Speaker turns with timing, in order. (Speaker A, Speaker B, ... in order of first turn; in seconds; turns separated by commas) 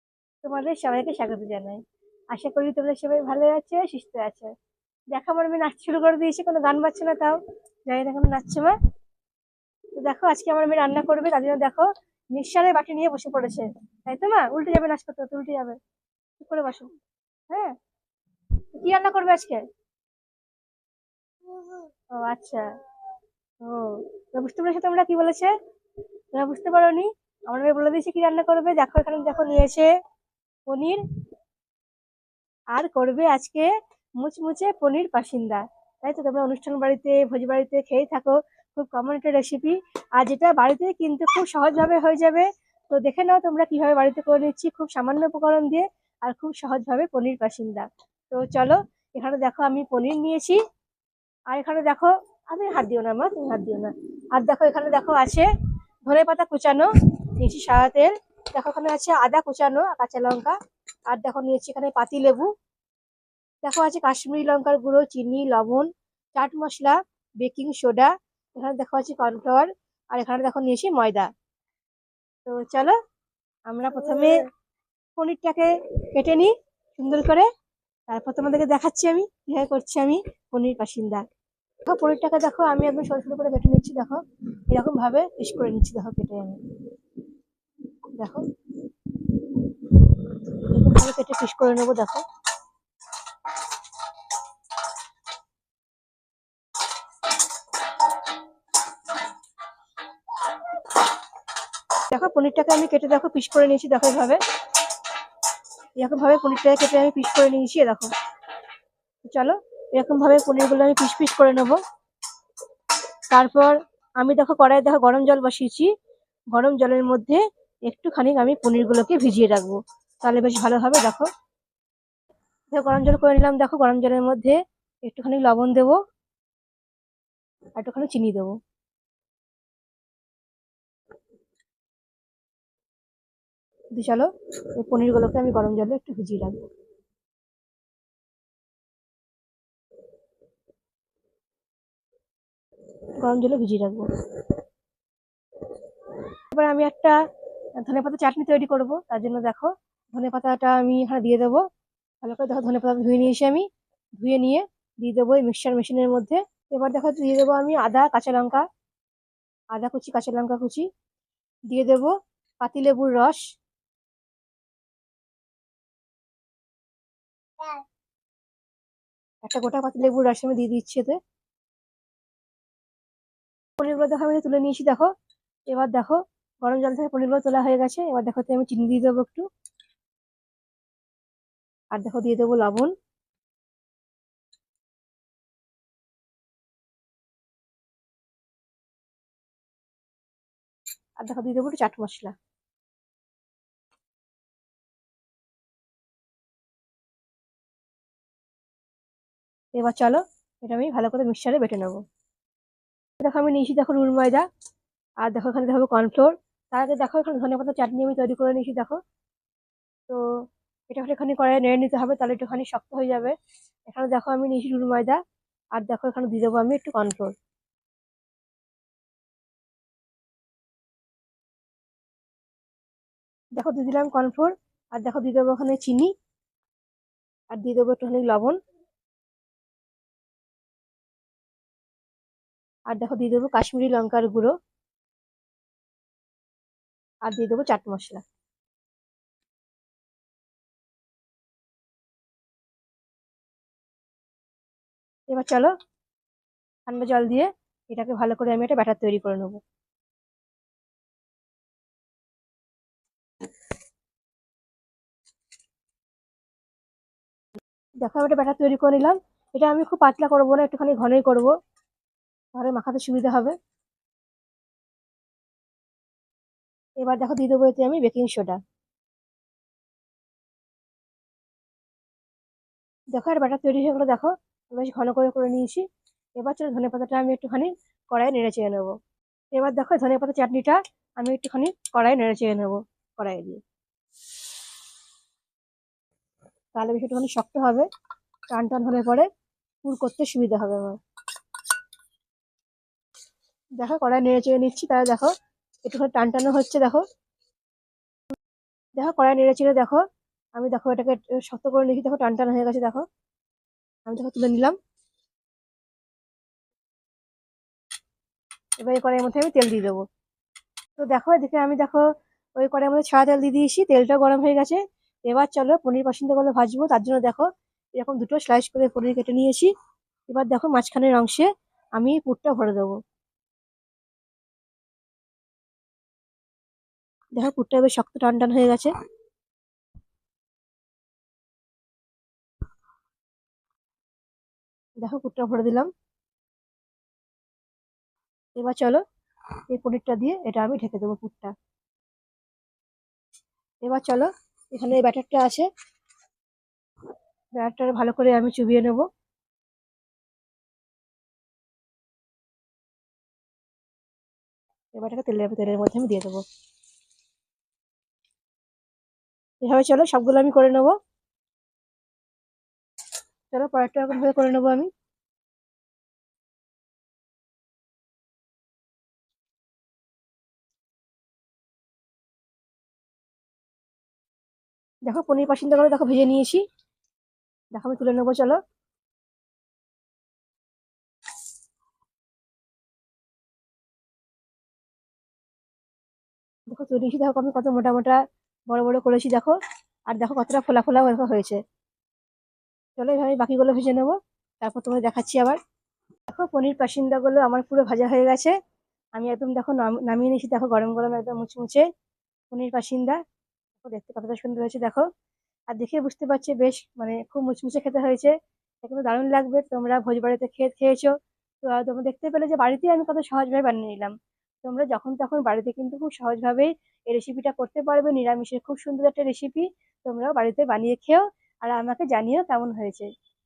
Speaker A: 0.4-1.8, Speaker A: 2.3-4.5, Speaker A: 5.1-8.8, Speaker A: 10.0-15.8, Speaker A: 16.4-16.9, Speaker A: 17.5-17.8, Speaker A: 18.8-19.6, Speaker A: 22.1-22.7, Speaker A: 23.6-25.5, Speaker A: 26.3-29.9, Speaker A: 30.7-31.0, Speaker A: 32.7-50.6, Speaker A: 51.5-55.5, Speaker A: 56.1-60.6, Speaker A: 61.1-62.5, Speaker A: 63.6-71.3, Speaker A: 72.5-73.0, Speaker A: 73.7-74.5, Speaker A: 75.2-77.5, Speaker A: 78.1-81.2, Speaker A: 81.9-86.6, Speaker A: 88.1-88.5, Speaker A: 90.5-92.2, Speaker A: 102.1-104.4, Speaker A: 106.0-108.1, Speaker A: 109.3-111.8, Speaker A: 113.3-115.9, Speaker A: 116.5-121.3, Speaker A: 122.7-126.0, Speaker A: 127.8-128.6, Speaker A: 133.9-136.7, Speaker A: 143.2-144.1, Speaker A: 146.5-147.2, Speaker A: 147.8-151.6, Speaker A: 152.2-153.7, Speaker A: 154.2-158.7, Speaker A: 159.7-160.9, Speaker A: 161.7-163.4, Speaker A: 169.4-171.2, Speaker A: 173.8-175.1, Speaker A: 175.7-179.5, Speaker A: 181.9-182.9, Speaker A: 191.2-192.3, Speaker A: 199.7-202.0, Speaker A: 203.2-204.4, Speaker A: 205.2-209.0, Speaker A: 210.9-213.3, Speaker A: 213.9-215.2, Speaker A: 215.8-217.3, Speaker A: 223.6-226.1, Speaker A: 227.5-228.6, Speaker A: 232.9-234.5, Speaker A: 237.2-238.2, Speaker A: 245.3-245.7, Speaker A: 246.9-249.6, Speaker A: 258.0-261.5, Speaker A: 262.5-263.6, Speaker A: 267.0-268.6, Speaker A: 273.1-275.9, Speaker A: 276.4-278.9, Speaker A: 279.5-283.6, Speaker A: 286.8-287.9, Speaker A: 288.5-289.3, Speaker A: 289.8-291.0, Speaker A: 293.8-295.3, Speaker A: 295.9-297.0, Speaker A: 299.0-300.0, Speaker A: 300.6-303.1, Speaker A: 304.1-304.8, Speaker A: 308.8-310.0, Speaker A: 311.0-312.1, Speaker A: 312.6-319.7, Speaker A: 320.3-323.0, Speaker A: 327.4-328.9, Speaker A: 335.0-335.9, Speaker A: 338.6-339.0, Speaker A: 339.7-341.5, Speaker A: 343.8-345.7, Speaker A: 347.6-349.1, Speaker A: 354.9-356.4, Speaker A: 359.6-361.0, Speaker A: 363.5-364.9, Speaker A: 375.1-376.6, Speaker A: 377.7-378.6, Speaker A: 386.7-389.6, Speaker A: 390.1-391.6, Speaker A: 393.0-395.6, Speaker A: 396.3-398.6, Speaker A: 399.1-401.9, Speaker A: 402.5-403.2, Speaker A: 403.8-405.1, Speaker A: 405.7-423.1